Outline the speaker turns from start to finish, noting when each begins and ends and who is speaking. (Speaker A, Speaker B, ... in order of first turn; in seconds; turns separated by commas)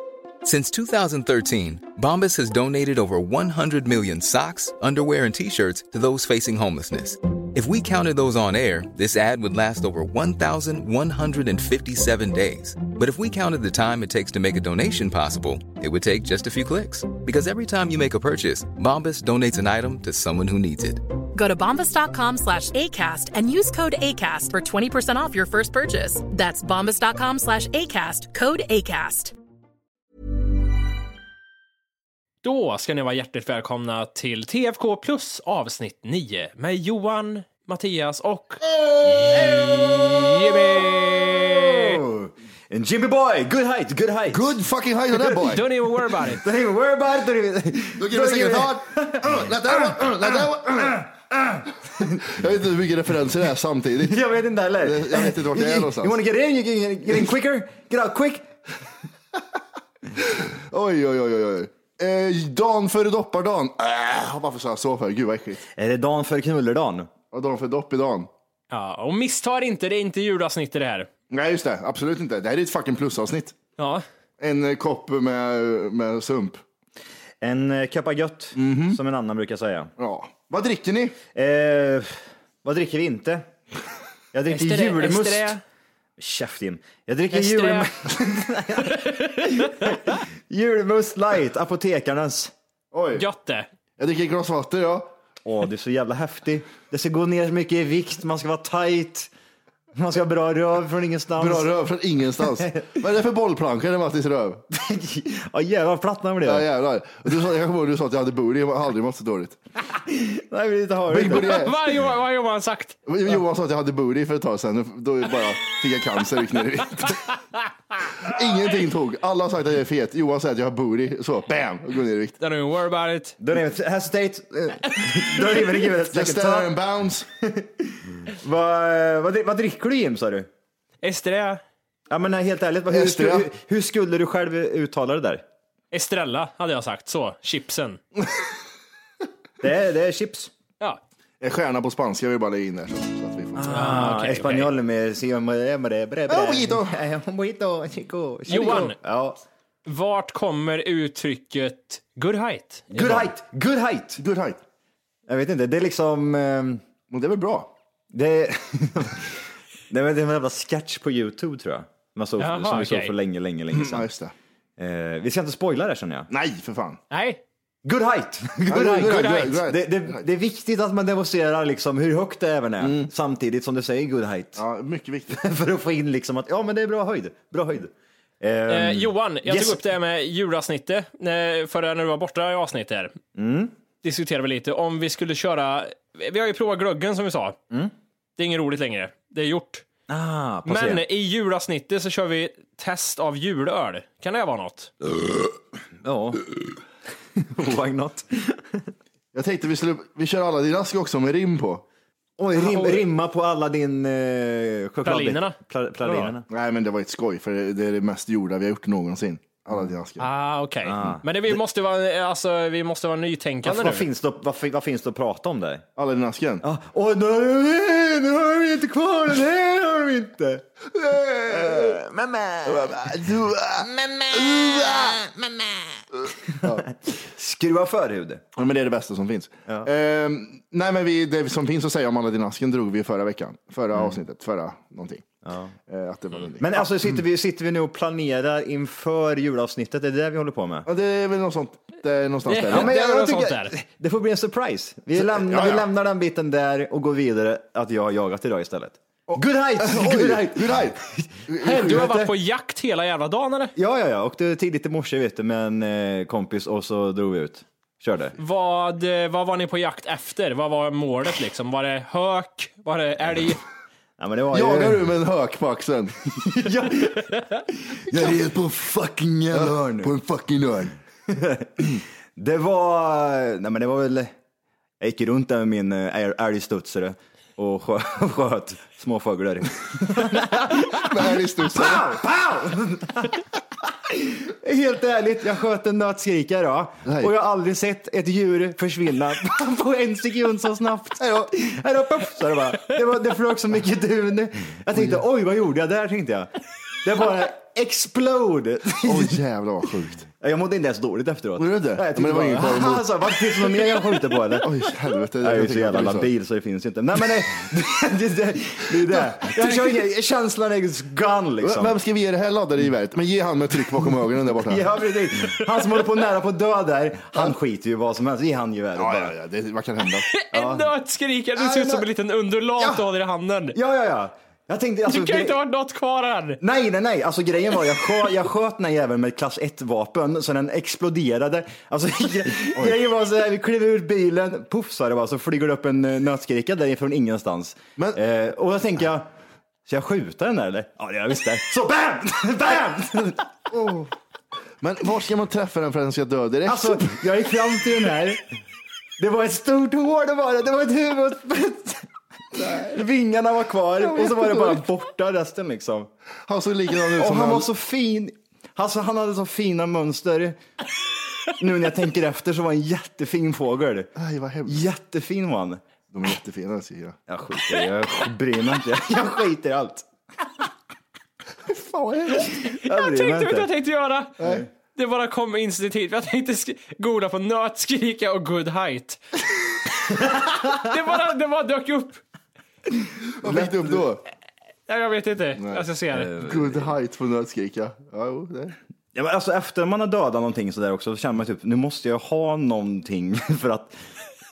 Speaker A: 0.4-21.0, Speaker B: 21.4-29.3, Speaker C: 32.4-38.6, Speaker D: 39.1-44.5, Speaker C: 39.9-42.0, Speaker E: 44.3-45.7, Speaker C: 45.3-46.4, Speaker D: 46.2-52.3, Speaker E: 48.0-51.1, Speaker E: 52.1-54.2, Speaker D: 54.0-58.6, Speaker E: 54.8-56.2, Speaker E: 60.2-65.7, Speaker D: 65.7-67.1, Speaker E: 67.3-68.3, Speaker C: 68.7-71.1, Speaker E: 71.3-73.5, Speaker C: 73.8-74.0, Speaker E: 74.4-76.6, Speaker D: 77.4-79.9, Speaker E: 78.6-79.0, Speaker E: 80.0-81.2, Speaker D: 81.3-83.5, Speaker D: 84.3-85.6, Speaker C: 84.5-85.6, Speaker D: 86.2-92.5, Speaker C: 87.3-87.9, Speaker C: 88.9-89.9, Speaker E: 92.9-93.2, Speaker C: 93.2-93.7, Speaker E: 94.0-95.1, Speaker D: 95.5-99.3, Speaker D: 99.9-101.7, Speaker E: 101.4-104.6, Speaker D: 102.4-103.0, Speaker D: 104.7-106.7, Speaker E: 106.4-109.6, Speaker D: 109.9-111.7, Speaker E: 111.1-111.8, Speaker C: 111.3-113.0, Speaker E: 113.1-117.3, Speaker E: 118.2-122.4, Speaker C: 122.4-123.4, Speaker D: 123.4-126.7, Speaker E: 126.1-127.3, Speaker D: 127.4-130.5, Speaker C: 131.0-131.6, Speaker D: 132.1-135.4, Speaker E: 132.9-133.5, Speaker C: 135.9-138.0, Speaker D: 139.6-140.5, Speaker E: 141.4-144.1, Speaker D: 143.6-149.4, Speaker C: 143.7-144.7, Speaker E: 146.3-146.9, Speaker C: 148.5-149.0, Speaker E: 148.5-148.8, Speaker C: 149.9-153.3, Speaker D: 152.9-154.2, Speaker E: 154.2-154.6, Speaker D: 155.3-156.8, Speaker E: 157.1-157.7, Speaker D: 158.1-164.1, Speaker C: 162.4-163.1, Speaker E: 163.7-164.3, Speaker D: 164.8-166.3, Speaker E: 166.3-167.0, Speaker C: 167.1-167.4, Speaker D: 167.8-174.6, Speaker E: 168.7-170.2, Speaker E: 172.8-173.1, Speaker E: 174.6-175.4, Speaker D: 175.3-179.8, Speaker C: 178.7-183.2, Speaker D: 183.3-183.7, Speaker C: 184.0-187.6, Speaker C: 188.4-189.9, Speaker D: 190.1-191.1, Speaker C: 190.7-194.9, Speaker D: 196.0-196.5, Speaker D: 197.3-198.9, Speaker E: 199.3-201.8, Speaker D: 202.4-206.5, Speaker C: 202.6-203.1, Speaker C: 205.1-206.3, Speaker E: 206.5-210.3, Speaker C: 210.2-214.1, Speaker D: 210.8-211.6, Speaker D: 213.6-215.8, Speaker E: 216.0-216.7, Speaker D: 216.6-220.7, Speaker E: 220.9-222.0, Speaker D: 221.5-223.1, Speaker E: 222.7-225.2, Speaker D: 223.8-225.9, Speaker E: 226.5-226.9, Speaker D: 226.6-228.4, Speaker E: 228.6-235.2, Speaker D: 233.9-234.2, Speaker D: 235.4-235.7, Speaker E: 235.9-236.9, Speaker D: 236.6-240.9, Speaker E: 240.9-242.9, Speaker C: 242.5-243.8, Speaker D: 242.7-252.2, Speaker E: 245.2-245.9, Speaker E: 249.3-252.3, Speaker C: 251.6-253.8, Speaker D: 253.8-258.4, Speaker C: 258.4-263.6, Speaker D: 264.2-265.1, Speaker E: 264.5-266.2, Speaker D: 266.3-270.1, Speaker E: 268.1-268.5, Speaker E: 269.5-271.0, Speaker D: 271.3-274.4, Speaker D: 275.0-283.4, Speaker E: 280.5-282.2, Speaker D: 284.0-296.5, Speaker E: 287.1-287.3, Speaker E: 291.2-291.5, Speaker E: 294.9-295.2, Speaker D: 297.0-299.4, Speaker E: 299.0-300.3, Speaker D: 300.4-304.9, Speaker E: 301.6-303.1, Speaker E: 304.6-306.3, Speaker D: 305.4-311.9, Speaker E: 309.1-309.5, Speaker E: 311.6-314.9, Speaker D: 314.1-319.3, Speaker E: 319.0-320.3, Speaker C: 320.3-323.8, Speaker D: 320.5-320.9, Speaker D: 321.6-322.1, Speaker D: 322.8-323.0, Speaker D: 323.7-325.6, Speaker C: 325.1-326.6, Speaker D: 326.6-339.3, Speaker D: 339.9-344.1, Speaker E: 344.8-347.1, Speaker D: 346.7-348.6, Speaker D: 349.2-356.1, Speaker E: 352.6-353.0, Speaker E: 354.0-354.9, Speaker E: 356.5-357.7, Speaker D: 357.1-360.6, Speaker D: 361.6-364.1, Speaker E: 364.2-364.8, Speaker D: 364.7-365.8, Speaker E: 366.1-367.2, Speaker D: 367.3-370.1, Speaker E: 371.7-372.6, Speaker D: 372.4-373.7, Speaker C: 372.4-374.4, Speaker E: 374.4-374.7, Speaker D: 374.4-374.7, Speaker C: 374.9-379.2, Speaker D: 380.4-380.7, Speaker C: 380.7-382.2, Speaker E: 383.4-384.2, Speaker D: 383.4-384.1, Speaker C: 384.9-386.3, Speaker E: 385.6-385.9, Speaker D: 386.1-386.9, Speaker E: 386.4-388.8, Speaker D: 389.1-394.1